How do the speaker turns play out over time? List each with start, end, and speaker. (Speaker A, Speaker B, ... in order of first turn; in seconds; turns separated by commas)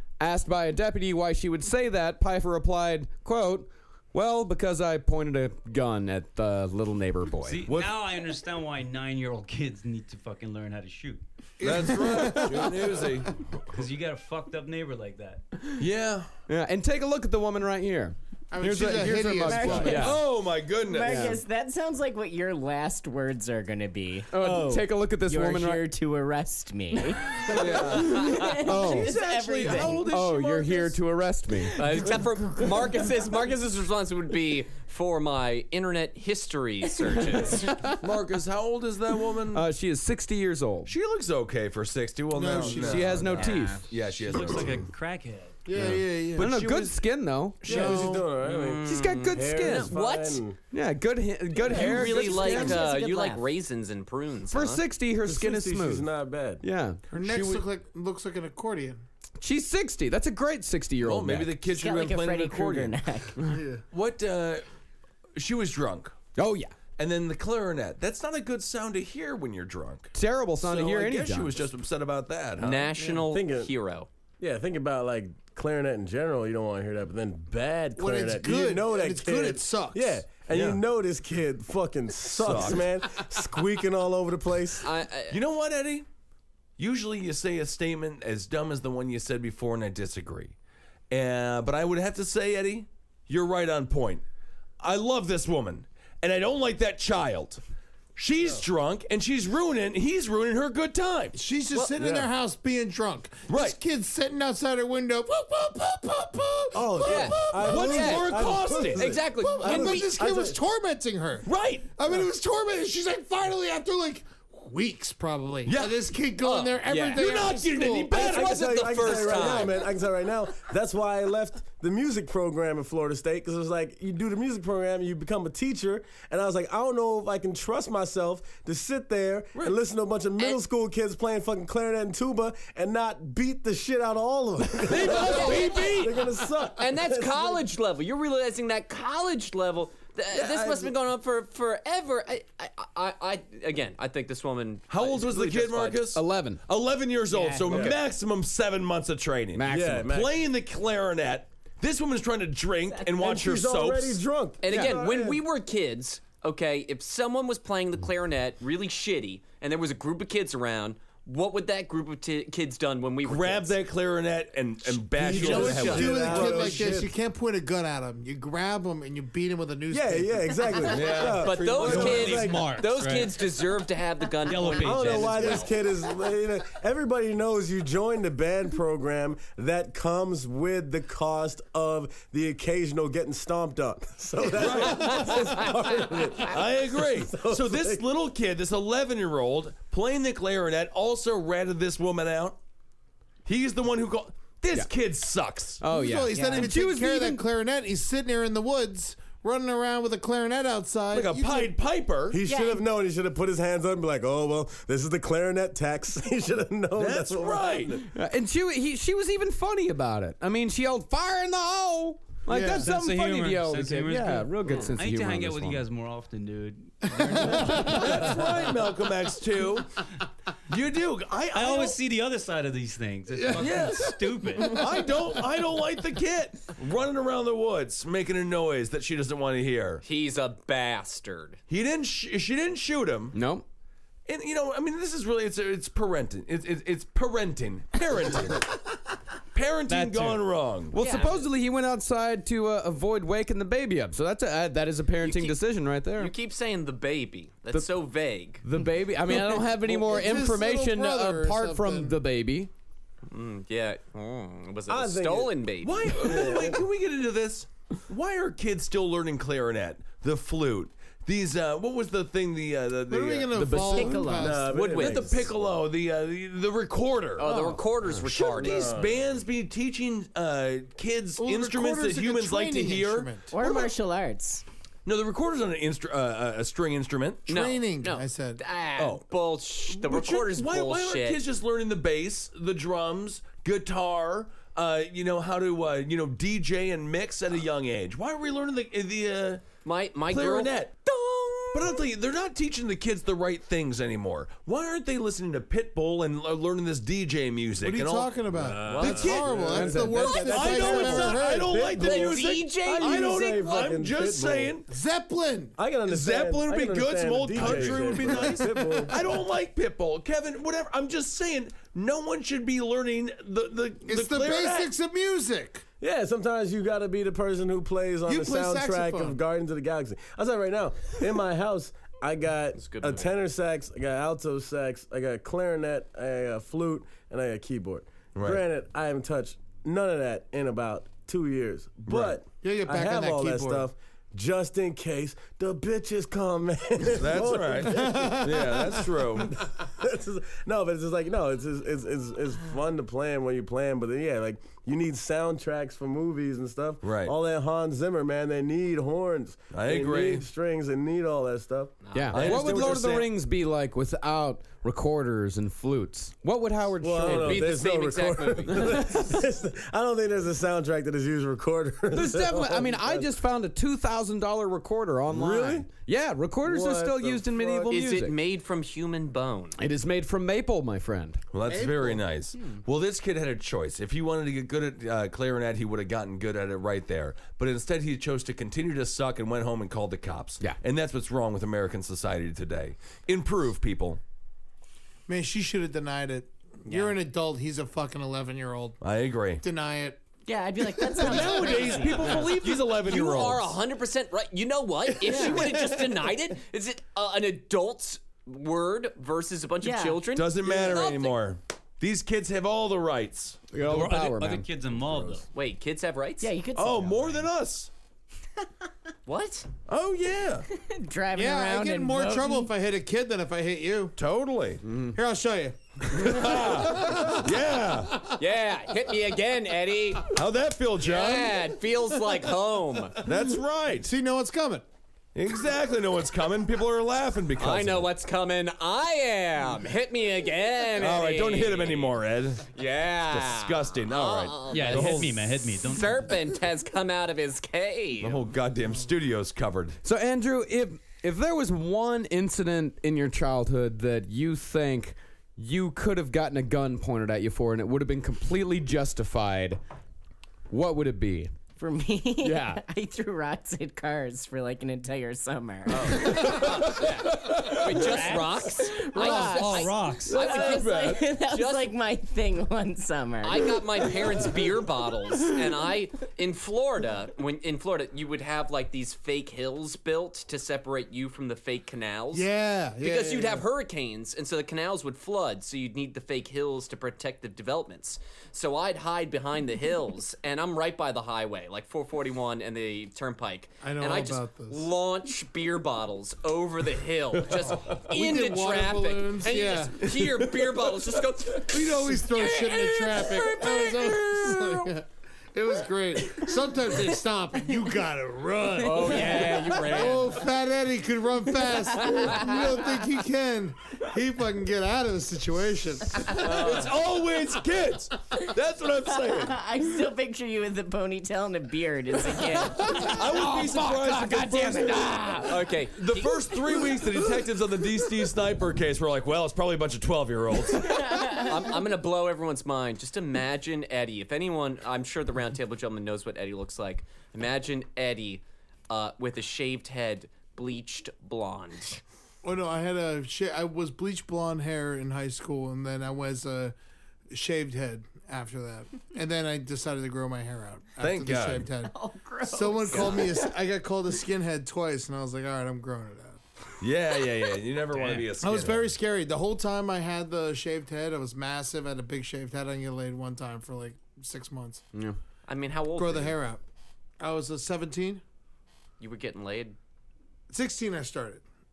Speaker A: 0.2-7.7, Speaker B: 7.4-11.2, Speaker C: 7.7-7.9, Speaker D: 11.6-13.1, Speaker C: 11.6-13.4, Speaker B: 13.7-15.4, Speaker C: 15.8-16.3, Speaker A: 16.5-20.2, Speaker D: 18.5-20.1, Speaker E: 19.4-20.2, Speaker C: 19.8-21.4, Speaker E: 20.8-30.1, Speaker A: 21.0-21.4, Speaker A: 24.3-25.9, Speaker C: 27.4-31.0, Speaker A: 27.8-29.1, Speaker A: 30.0-32.1, Speaker F: 31.8-37.7, Speaker A: 37.7-38.0, Speaker C: 37.9-39.6, Speaker A: 39.5-40.9, Speaker C: 40.9-44.9, Speaker D: 42.3-43.4, Speaker A: 42.7-43.9, Speaker B: 43.3-45.6, Speaker D: 45.7-46.6, Speaker C: 45.8-47.0, Speaker A: 45.8-48.0, Speaker C: 47.6-48.2, Speaker G: 47.6-50.6, Speaker D: 47.7-48.3, Speaker F: 48.4-50.4, Speaker A: 48.9-49.9, Speaker A: 50.7-52.8, Speaker F: 51.6-54.8, Speaker E: 51.7-53.4, Speaker A: 54.5-56.1, Speaker G: 55.2-56.6, Speaker A: 56.6-57.6, Speaker D: 57.1-59.0, Speaker A: 59.4-61.5, Speaker C: 61.0-63.0, Speaker E: 61.7-63.4, Speaker D: 63.5-63.8, Speaker C: 63.9-64.6, Speaker C: 65.4-66.2, Speaker A: 66.4-66.8, Speaker C: 67.0-72.9, Speaker A: 70.2-71.6, Speaker F: 72.6-74.1, Speaker G: 73.2-73.7, Speaker G: 74.4-84.9, Speaker D: 78.0-80.2, Speaker C: 80.5-80.8, Speaker C: 82.3-82.9, Speaker F: 84.8-85.4, Speaker C: 85.3-86.1, Speaker C: 86.8-90.5, Speaker C: 91.1-94.2, Speaker C: 94.8-97.6, Speaker C: 98.2-101.4, Speaker D: 101.3-108.1, Speaker G: 102.0-102.3, Speaker C: 103.5-103.8, Speaker G: 106.7-110.6, Speaker F: 107.0-110.1, Speaker C: 107.6-109.2, Speaker D: 109.2-118.2, Speaker C: 111.5-111.9, Speaker C: 115.7-116.0, Speaker F: 116.4-117.2, Speaker C: 117.0-119.7, Speaker G: 118.1-137.6, Speaker F: 118.1-119.8, Speaker C: 134.9-136.2, Speaker F: 135.1-136.0, Speaker F: 136.8-146.0, Speaker C: 140.3-140.9, Speaker C: 144.9-154.2, Speaker A: 146.1-146.6, Speaker E: 147.3-147.6, Speaker F: 147.6-148.0, Speaker G: 147.7-148.0, Speaker A: 149.6-150.1, Speaker G: 149.6-150.4, Speaker G: 153.1-155.4, Speaker F: 154.6-163.8, Speaker A: 154.7-155.0, Speaker C: 163.2-166.8, Speaker G: 165.2-167.1, Speaker F: 165.2-166.7, Speaker D: 165.3-170.9, Speaker G: 169.9-172.7, Speaker C: 170.8-172.1, Speaker F: 171.2-175.7, Speaker B: 171.8-173.4, Speaker B: 174.4-175.6, Speaker G: 174.7-188.0, Speaker C: 184.5-185.6, Speaker F: 184.8-185.8, Speaker C: 186.4-192.6, Speaker C: 193.4-195.8, Speaker A: 195.8-197.5, Speaker D: 195.9-201.7, Speaker E: 196.3-196.7, Speaker C: 201.1-202.4, Speaker G: 202.3-208.0, Speaker E: 202.5-202.8, Speaker C: 207.0-208.0, Speaker A: 208.0-215.8, Speaker D: 212.5-212.9, Speaker B: 212.8-218.4, Speaker D: 217.1-218.6, Speaker C: 217.8-219.9, Speaker C: 220.7-222.0, Speaker B: 221.5-224.9, Speaker D: 223.3-224.9, Speaker C: 223.5-230.0, Speaker F: 230.0-231.6, Speaker C: 231.7-233.4, Speaker A: 233.3-233.7, Speaker C: 234.3-238.8, Speaker C: 239.5-241.0, Speaker B: 239.9-240.5, Speaker A: 240.9-246.3, Speaker F: 241.0-241.4, Speaker F: 245.2-245.6, Speaker F: 246.2-248.6, Speaker A: 248.6-252.7, Speaker D: 249.8-252.2, Speaker F: 253.3-256.5, Speaker G: 254.9-256.8, Speaker C: 255.8-263.7, Speaker D: 263.1-264.7, Speaker A: 263.5-264.4, Speaker E: 263.9-264.6, Speaker G: 264.4-265.6, Speaker C: 264.7-267.5, Speaker F: 264.8-265.4, Speaker F: 267.4-268.9, Speaker E: 267.4-267.9, Speaker C: 268.3-273.9, Speaker G: 268.5-269.3, Speaker D: 271.4-273.5, Speaker E: 273.5-274.6, Speaker C: 275.1-277.5, Speaker D: 277.5-278.6, Speaker F: 277.5-281.4, Speaker C: 279.0-279.2, Speaker C: 279.9-289.6, Speaker F: 289.9-292.0, Speaker C: 290.3-290.9, Speaker C: 291.7-304.9, Speaker D: 297.8-302.1, Speaker G: 298.5-304.8, Speaker F: 298.8-299.5, Speaker A: 299.7-301.4, Speaker F: 301.9-303.4, Speaker D: 304.9-305.8, Speaker G: 305.8-309.3, Speaker C: 306.1-314.9, Speaker D: 307.6-308.8, Speaker D: 314.1-315.8, Speaker G: 316.0-353.1, Speaker D: 318.3-319.4, Speaker F: 322.8-323.4, Speaker C: 328.3-328.6, Speaker C: 332.1-332.4, Speaker D: 332.5-333.9, Speaker C: 337.1-339.6, Speaker D: 337.8-339.0, Speaker C: 347.0-347.3, Speaker C: 349.7-350.4, Speaker F: 352.0-352.9, Speaker A: 352.1-357.7, Speaker C: 352.3-353.3, Speaker G: 357.0-363.3, Speaker F: 357.2-359.3, Speaker A: 362.1-368.4, Speaker G: 365.3-365.9, Speaker G: 366.6-367.9, Speaker F: 367.9-369.8, Speaker A: 369.8-371.4, Speaker C: 371.5-384.2, Speaker D: 371.6-372.3, Speaker D: 385.3-389.0, Speaker C: 389.0-389.6, Speaker D: 389.6-390.2, Speaker E: 390.5-392.5, Speaker D: 390.8-392.1, Speaker C: 391.2-393.8, Speaker F: 392.1-401.4, Speaker D: 395.2-396.3, Speaker E: 395.3-395.6, Speaker E: 399.8-400.2, Speaker C: 400.3-403.6, Speaker A: 403.7-404.7, Speaker B: 403.8-405.5, Speaker F: 405.5-406.5, Speaker E: 406.4-407.5, Speaker C: 406.8-407.9, Speaker F: 409.3-409.7, Speaker C: 409.9-410.7, Speaker E: 410.8-412.7, Speaker D: 411.3-414.2, Speaker C: 414.2-414.8, Speaker A: 414.9-415.1, Speaker D: 415.1-418.4, Speaker C: 416.1-418.3, Speaker F: 418.4-420.3, Speaker C: 420.3-421.6, Speaker F: 421.0-423.2, Speaker C: 423.2-424.1, Speaker D: 424.0-424.9, Speaker C: 425.4-428.1, Speaker F: 427.6-432.2, Speaker C: 430.9-432.6, Speaker F: 432.7-438.5, Speaker C: 433.3-435.4, Speaker B: 434.7-436.4, Speaker C: 438.2-440.0, Speaker A: 440.0-449.8, Speaker A: 450.7-451.5, Speaker E: 451.8-456.5, Speaker A: 452.4-452.8, Speaker F: 455.9-461.9, Speaker C: 456.1-458.0, Speaker B: 458.0-460.4, Speaker E: 458.8-464.0, Speaker C: 460.3-461.3, Speaker F: 463.4-472.5, Speaker D: 472.3-473.6, Speaker F: 473.0-494.2, Speaker D: 483.8-484.9, Speaker C: 487.6-488.1, Speaker D: 487.7-490.0, Speaker C: 490.2-490.7, Speaker D: 491.7-506.8, Speaker F: 498.8-500.4, Speaker C: 506.3-509.6, Speaker F: 506.4-506.9, Speaker E: 509.3-515.5, Speaker C: 512.8-521.2, Speaker F: 515.4-516.5, Speaker E: 521.0-521.5, Speaker F: 521.3-532.0, Speaker D: 532.4-536.8, Speaker D: 537.3-541.9, Speaker C: 541.0-541.7, Speaker E: 541.9-543.5, Speaker D: 542.5-546.4, Speaker C: 546.8-548.9, Speaker B: 547.9-548.3, Speaker D: 548.4-554.8, Speaker F: 555.5-556.4, Speaker D: 556.0-556.6, Speaker D: 557.2-558.2, Speaker F: 559.0-559.8, Speaker D: 560.5-561.4